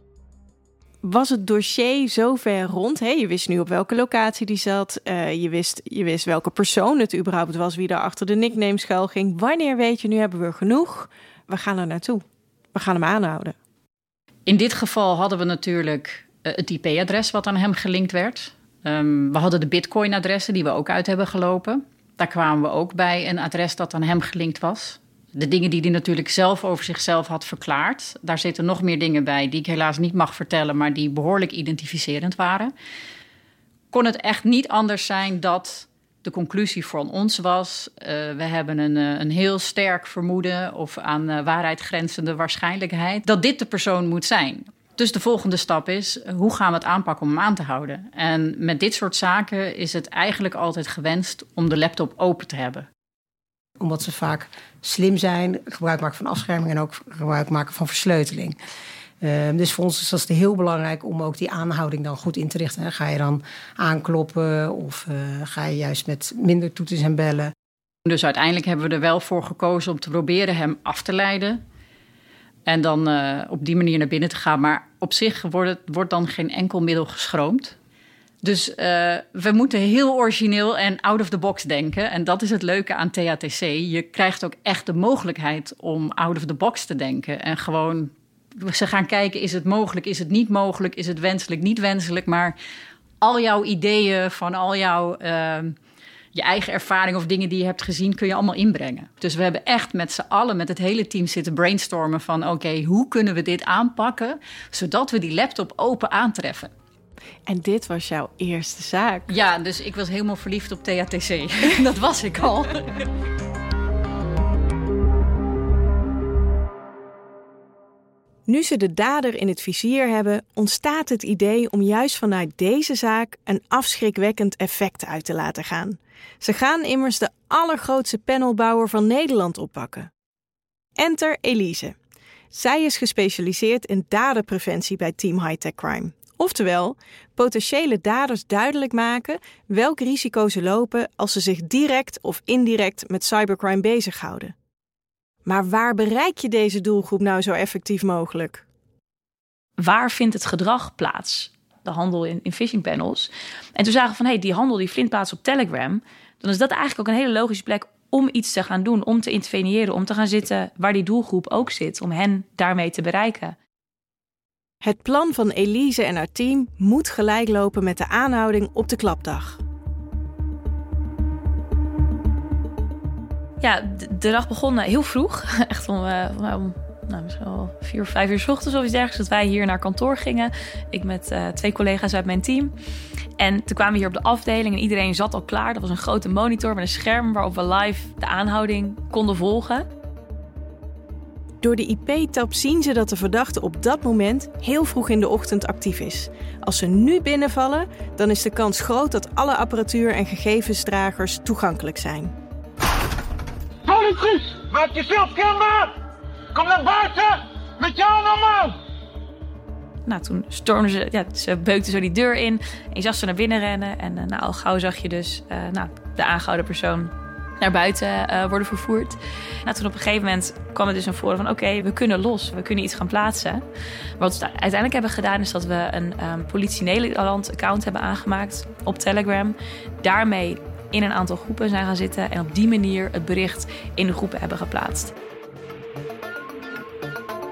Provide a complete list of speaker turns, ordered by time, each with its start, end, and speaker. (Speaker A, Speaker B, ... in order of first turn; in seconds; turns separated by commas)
Speaker A: 1.0-13.6, Speaker B: 14.5-32.7, Speaker B: 33.9-52.9, Speaker C: 53.8-58.6, Speaker C: 59.2-67.5, Speaker B: 68.0-71.6, Speaker B: 72.7-77.8, Speaker B: 78.4-92.5, Speaker B: 93.2-95.8, Speaker B: 96.3-106.7, Speaker A: 107.5-109.3, Speaker B: 109.3-113.1, Speaker A: 118.5-130.1, Speaker A: 131.0-131.9, Speaker A: 132.5-144.5, Speaker A: 145.5-148.6, Speaker D: 149.8-163.6, Speaker A: 164.8-169.6, Speaker D: 173.6-182.7, Speaker D: 183.4-189.9, Speaker A: 191.6-202.3, Speaker E: 203.8-205.9, Speaker E: 206.5-208.8, Speaker D: 210.1-223.6, Speaker D: 224.2-235.1